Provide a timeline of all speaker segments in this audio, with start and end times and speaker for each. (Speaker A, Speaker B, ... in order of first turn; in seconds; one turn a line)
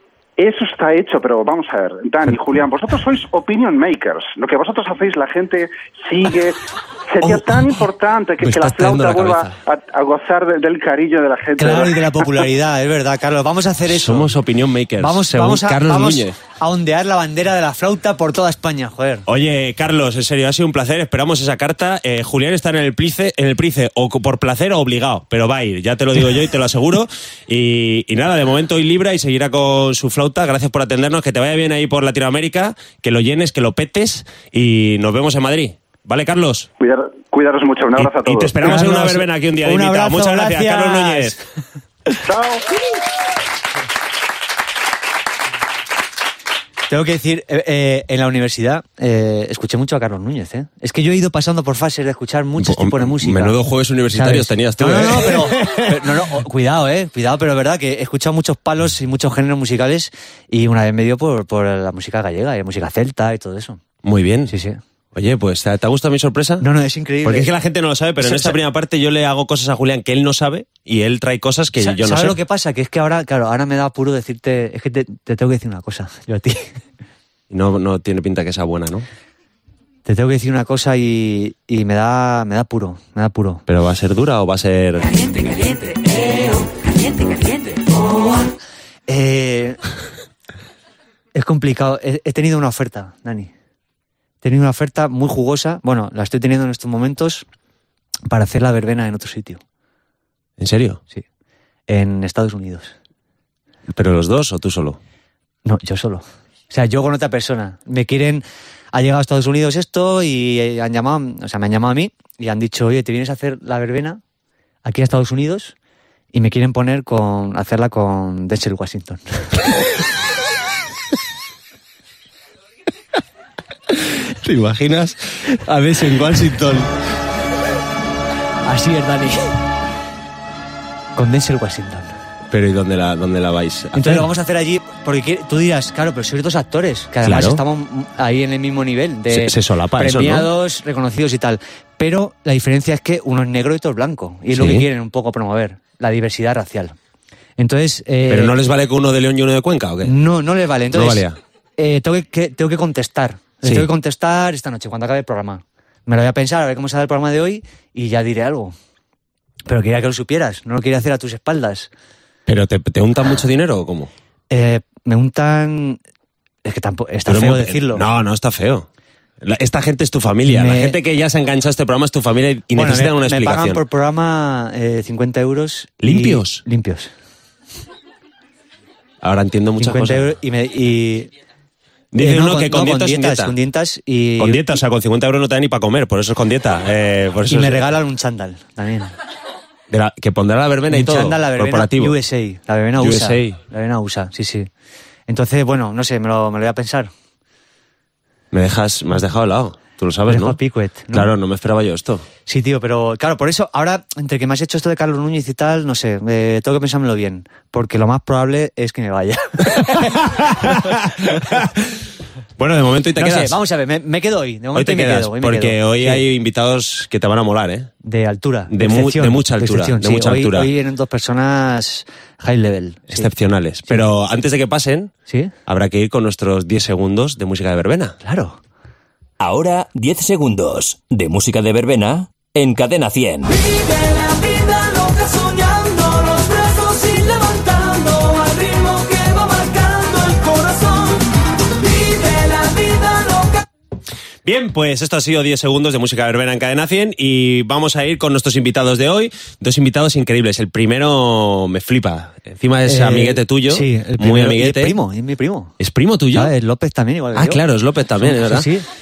Speaker A: 0.4-12.5
Speaker B: 7.2-7.8
Speaker B: 8.4-9.5
Speaker C: 11.6-14.3
Speaker B: 13.9-16.4
Speaker C: 15.0-19.2
Speaker B: 19.3-36.7
Speaker A: 36.8-38.5
Speaker B: 38.0-41.4
Speaker C: 38.6-41.4
Speaker A: 42.2-42.6
Speaker C: 46.9-53.5
Speaker B: 52.6-56.1
Speaker C: 54.1-63.8
Speaker B: 64.0-64.5
Speaker C: 64.5-64.8
Speaker B: 65.1-66.7
Speaker C: 66.6-67.5
Speaker B: 67.2-72.3
Speaker C: 68.2-68.6
Speaker C: 71.8-76.7
Speaker B: 77.5-79.0
Speaker C: 80.0-83.6
Speaker B: 83.7-85.1
Speaker D: 85.1-88.4
Speaker C: 89.1-89.8
Speaker C: 91.3-93.5
Speaker C: 94.4-97.4
Speaker C: 98.3-99.6
Speaker B: 100.6-101.0
Speaker C: 101.9-102.9
Speaker B: 103.9-105.0
Speaker C: 105.6-114.2
Speaker C: 114.8-115.7
Speaker C: 116.3-119.2
Speaker B: 123.9-126.9
Speaker C: 128.6-129.5
Speaker C: 131.2-132.1
Speaker B: 132.5-134.3
Speaker C: 133.9-146.9
Speaker B: 137.2-137.6
Speaker B: 139.3-140.5
Speaker B: 144.5-144.8
Speaker C: 147.6-148.6
Speaker B: 148.3-150.2
Speaker C: 150.0-151.2
Speaker B: 150.9-151.3
Speaker C: 151.8-158.7
Speaker B: 153.6-153.9
Speaker C: 159.7-161.9
Speaker B: 162.4-164.1
Speaker C: 164.5-166.0
Speaker C: 166.6-168.0
Speaker B: 167.3-168.8
Speaker B: 169.4-173.8
Speaker C: 170.4-171.0
Speaker C: 172.7-177.1
Speaker B: 176.0-176.6
Speaker B: 179.2-180.3
Speaker C: 179.8-181.3
Speaker B: 182.1-183.5
Speaker C: 182.2-184.6
Speaker B: 184.4-187.8
Speaker C: 187.5-189.1
Speaker B: 189.9-192.1
Speaker C: 190.9-194.7
Speaker B: 193.0-193.6
Speaker C: 195.3-197.1
Speaker B: 198.5-200.6
Speaker C: 200.3-201.3
Speaker B: 201.1-202.2
Speaker C: 202.4-210.7
Speaker B: 209.8-211.8
Speaker B: 212.6-213.6
Speaker C: 213.2-216.2
Speaker B: 214.7-217.9
Speaker C: 218.0-223.3
Speaker B: 218.7-220.7
Speaker B: 223.1-225.1
Speaker C: 225.3-225.5
Speaker B: 225.7-228.2
Speaker C: 228.2-228.6
Speaker E: 229.4-233.5
Speaker D: 233.4-243.7
Speaker B: 244.4-255.0
Speaker C: 252.9-255.8
Speaker B: 255.8-256.5
Speaker C: 256.3-257.6
Speaker B: 257.3-258.7
Speaker C: 258.2-258.9